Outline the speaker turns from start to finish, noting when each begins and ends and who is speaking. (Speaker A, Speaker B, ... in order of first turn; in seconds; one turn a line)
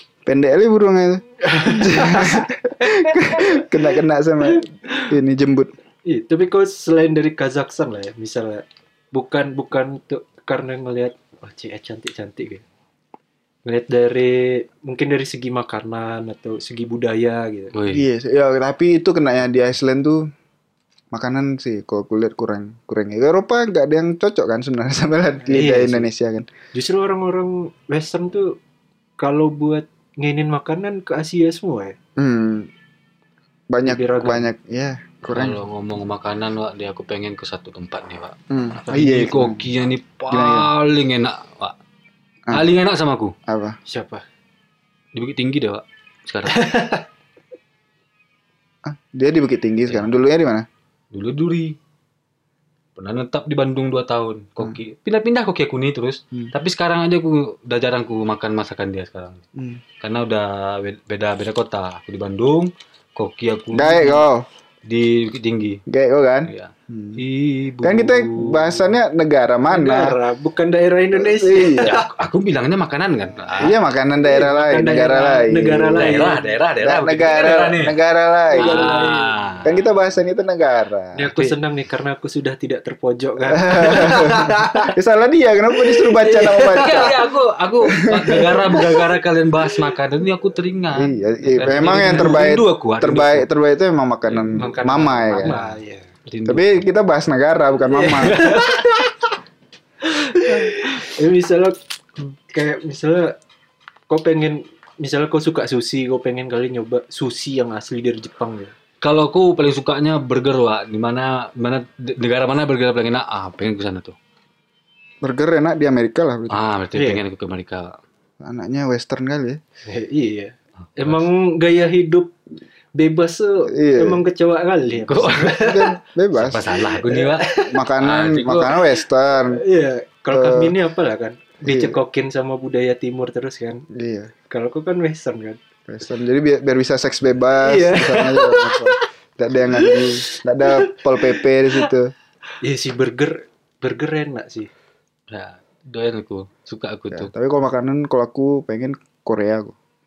Speaker A: 0.2-5.7
Speaker B: 1.4-3.6
Speaker B: 4.4-5.1
Speaker B: 6.0-12.6
Speaker B: 13.6-17.7
Speaker C: 17.7-18.1
Speaker A: 17.9-20.3
Speaker A: 21.1-26.5
Speaker B: 25.5-26.1
Speaker B: 26.7-28.6
Speaker B: 29.2-31.9
Speaker A: 32.2-32.7
Speaker A: 33.7-35.6
Speaker B: 33.8-34.5
Speaker C: 35.3-38.4
Speaker A: 38.5-39.7
Speaker B: 38.9-39.1
Speaker C: 38.9-41.7
Speaker A: 40.3-40.7
Speaker C: 42.5-43.4
Speaker A: 43.5-43.8
Speaker B: 43.9-44.2
Speaker C: 45.1-46.7
Speaker B: 46.5-47.0
Speaker A: 48.8-50.7
Speaker C: 51.1-51.8
Speaker C: 53.0-59.4
Speaker A: 59.5-59.8
Speaker C: 60.0-64.3
Speaker A: 63.7-64.5
Speaker C: 64.8-65.8
Speaker A: 65.9-67.2
Speaker C: 66.5-68.9
Speaker A: 67.8-70.2
Speaker B: 69.7-72.1
Speaker A: 71.1-72.0
Speaker C: 71.8-73.8
Speaker A: 73.6-76.2
Speaker B: 74.2-76.5
Speaker C: 76.0-78.0
Speaker A: 76.8-79.1
Speaker B: 78.5-79.4
Speaker C: 78.6-79.8
Speaker A: 79.6-81.3
Speaker B: 81.2-84.9
Speaker A: 83.5-87.2
Speaker B: 85.9-87.2
Speaker C: 86.7-93.5
Speaker A: 87.9-88.8
Speaker A: 90.9-95.6
Speaker C: 94.3-95.7
Speaker B: 94.5-96.2
Speaker C: 96.3-96.8
Speaker A: 96.5-98.6
Speaker B: 97.9-99.3
Speaker B: 100.1-103.3
Speaker B: 104.1-108.7
Speaker C: 109.0-114.2
Speaker A: 115.2-116.6
Speaker C: 116.5-118.0
Speaker B: 116.9-117.2
Speaker A: 118.4-119.6
Speaker B: 119.9-122.3
Speaker C: 121.0-121.3
Speaker B: 122.9-125.9
Speaker A: 123.7-124.2
Speaker C: 125.1-125.7
Speaker A: 125.6-126.7
Speaker C: 126.3-128.8
Speaker B: 126.8-127.8
Speaker A: 127.6-129.6
Speaker B: 129.3-133.9
Speaker A: 130.3-130.7
Speaker A: 131.6-132.0
Speaker A: 133.9-134.3
Speaker B: 134.5-135.6
Speaker A: 135.9-142.1
Speaker B: 137.6-139.1
Speaker B: 139.6-141.9
Speaker B: 142.6-144.7
Speaker C: 145.3-147.3
Speaker A: 147.1-149.7